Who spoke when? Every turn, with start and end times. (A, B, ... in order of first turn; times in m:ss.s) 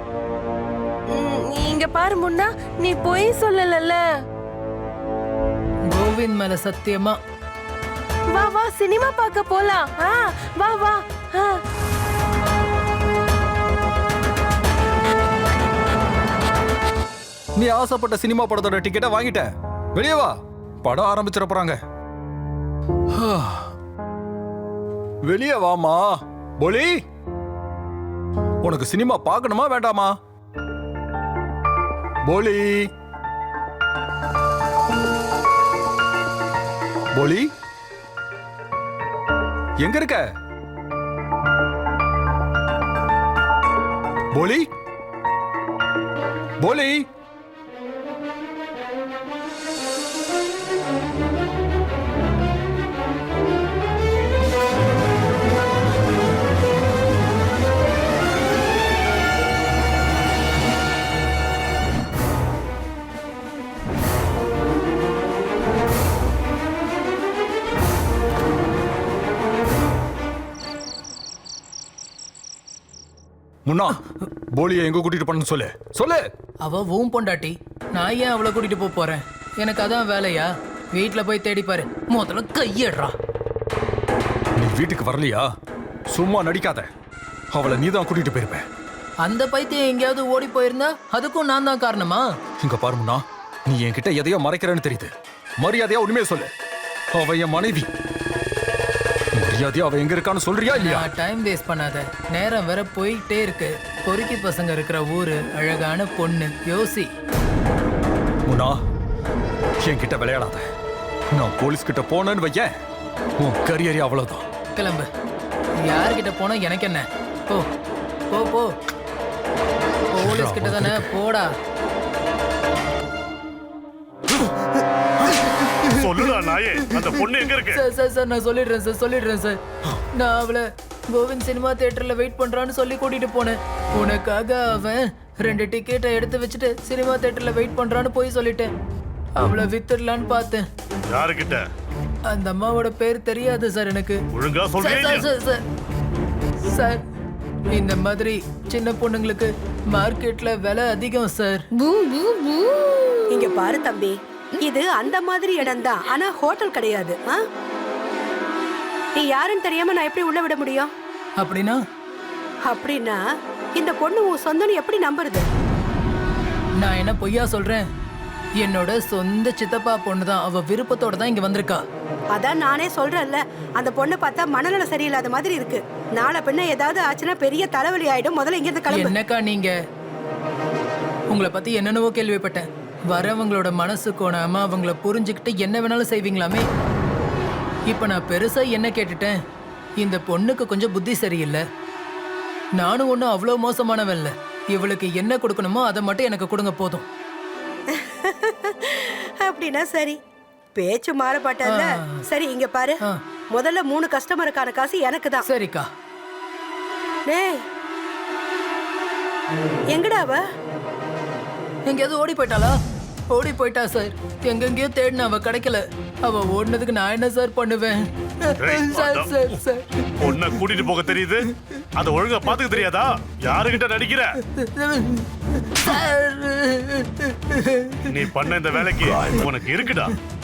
0:01.1-0:04.0 A
0:05.9-0:07.2 B
0:08.3-0:11.6 A
0:17.5-0:21.8 C
0:23.1-0:23.7 C
0:25.2-0:27.0 C
0:28.6-0:30.2 C
0:32.2-0:32.9 C
0:37.1-0:37.5 C
0:39.8-0:40.3 C
0:44.3-0:44.7 C
0:46.6-0:47.1 C
1:13.7-1:14.0 C
1:14.5-1:16.3 C
1:16.6-1:23.1 B
1:24.6-1:25.5 C
1:26.1-1:26.9 C
1:27.5-1:28.6 C
1:29.2-1:32.2 B
1:32.6-1:36.5 C
1:37.1-1:37.9 C
1:39.3-1:41.1 C
1:40.7-1:47.1 B
1:48.5-1:48.8 C
1:49.8-1:50.6 C
1:51.3-1:52.7 C
1:53.4-1:54.5 C
1:54.7-1:55.1 B
1:55.8-1:57.6 B
1:58.3-1:58.7 B
2:00.1-2:01.5 B
2:00.2-2:01.2 C
2:05.6-2:06.2 B
2:05.9-2:07.8 D
2:07.6-2:09.6 B
2:10.1-2:18.7 B
2:19.4-2:20.6 B
2:21.1-2:21.7 D
2:22.3-2:24.2 B
2:24.3-2:25.2 D
2:24.8-2:25.6 B
2:26.6-2:27.0 B
2:27.7-2:31.6 B
2:31.8-2:33.5 A
2:33.3-2:37.4 E
2:39.1-2:40.9 E
2:41.4-2:41.8 B
2:42.6-2:43.2 E
2:43.8-2:45.4 E
2:46.8-2:47.8 B
2:48.6-2:51.8 B
2:52.3-2:59.1 E
2:58.9-2:59.7 B
3:01.3-3:06.6 B
3:07.9-3:09.4 B
3:10.0-3:11.6 B
3:12.8-3:17.0 B
3:17.9-3:20.2 E
3:20.8-3:23.0 E
3:21.6-3:22.2 B
3:23.5-3:25.4 E
3:25.4-3:25.9 B
3:27.3-3:27.6 E
3:29.9-3:30.4 E
3:31.9-3:32.8 B
3:33.3-3:40.3 B
3:38.6-3:39.4 D
3:40.2-3:44.4 D
3:44.5-3:48.8 B
3:48.1-3:50.1 D